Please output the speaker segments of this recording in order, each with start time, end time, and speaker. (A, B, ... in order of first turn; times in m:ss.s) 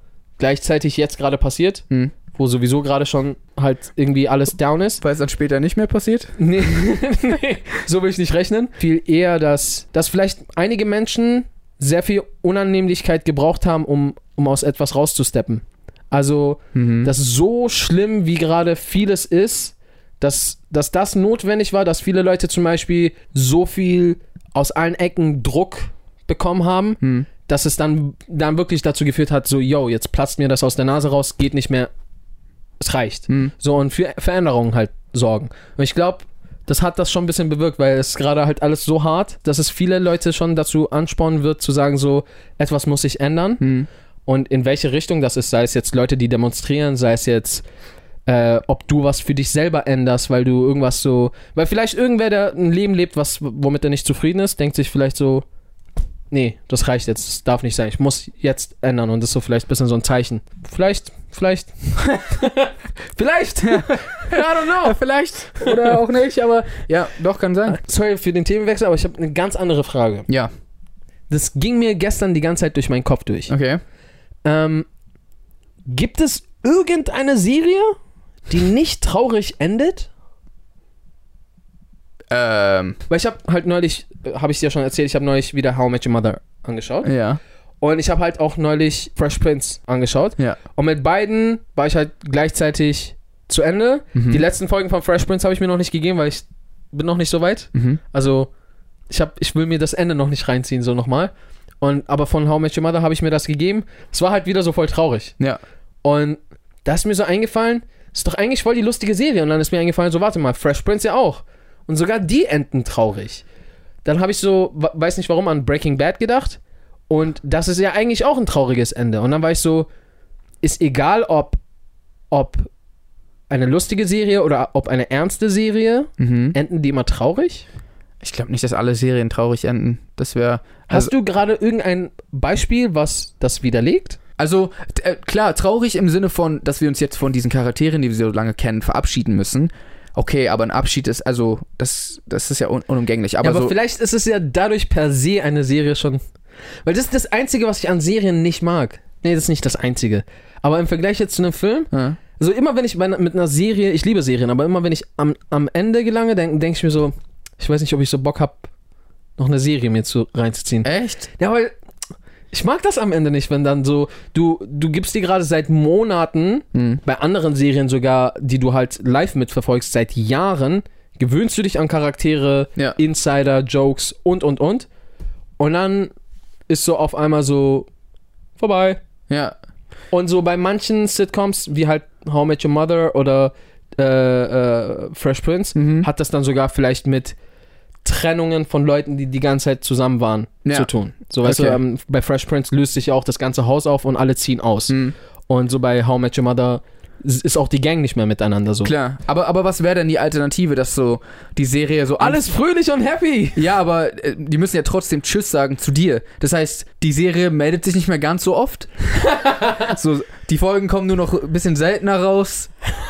0:00.4-0:05.0 A
0:05.0-0:06.4 B
0:06.4-0:31.9 A
0:16.7-0:17.1 B
0:27.0-0:27.3 B
0:32.8-0:43.7 A
0:43.6-0:43.9 B
0:44.3-0:47.6 A
0:48.3-0:55.4 A
0:56.3-1:05.0 A
1:03.6-1:07.8 B
1:05.6-1:06.0 A
1:07.7-1:10.3 A
1:11.3-1:13.5 A
1:13.5-1:13.8 B
1:14.4-1:14.9 A
1:15.9-1:18.0 A
1:18.5-1:20.1 A
1:22.3-1:23.0 B
1:23.1-1:27.1 A
1:27.0-1:27.4 B
1:27.8-1:38.5 A
1:34.2-1:34.4 B
1:37.8-1:38.0 B
1:39.1-1:41.3 A
1:41.8-1:45.3 A
1:46.0-1:53.4 A
1:54.0-1:56.6 A
1:57.1-1:59.9 A
2:00.6-2:01.6 A
2:02.3-2:02.7 A
2:03.5-2:07.7 A
2:06.2-2:06.6 B
2:08.2-2:11.1 B
2:10.9-2:14.2 A
2:14.4-2:23.7 B
2:23.4-2:26.2 A
2:26.8-2:38.7 A
2:31.9-2:32.2 B
2:39.4-2:41.7 A
2:40.8-2:41.3 B
2:42.5-2:54.9 A
2:46.7-2:47.0 B
2:55.6-2:56.1 A
2:56.7-2:57.9 A
2:58.6-2:59.0 A
2:59.3-2:59.6 B
3:00.1-3:07.4 A
3:05.8-3:06.1 B
3:08.0-3:18.9 A
3:10.6-3:10.9 B
3:11.4-3:11.8 B
3:14.9-3:15.1 B
3:18.8-3:22.4 B
3:22.2-3:23.6 A
3:23.6-3:28.9 B
3:29.2-3:29.8 A
3:29.6-3:32.7 B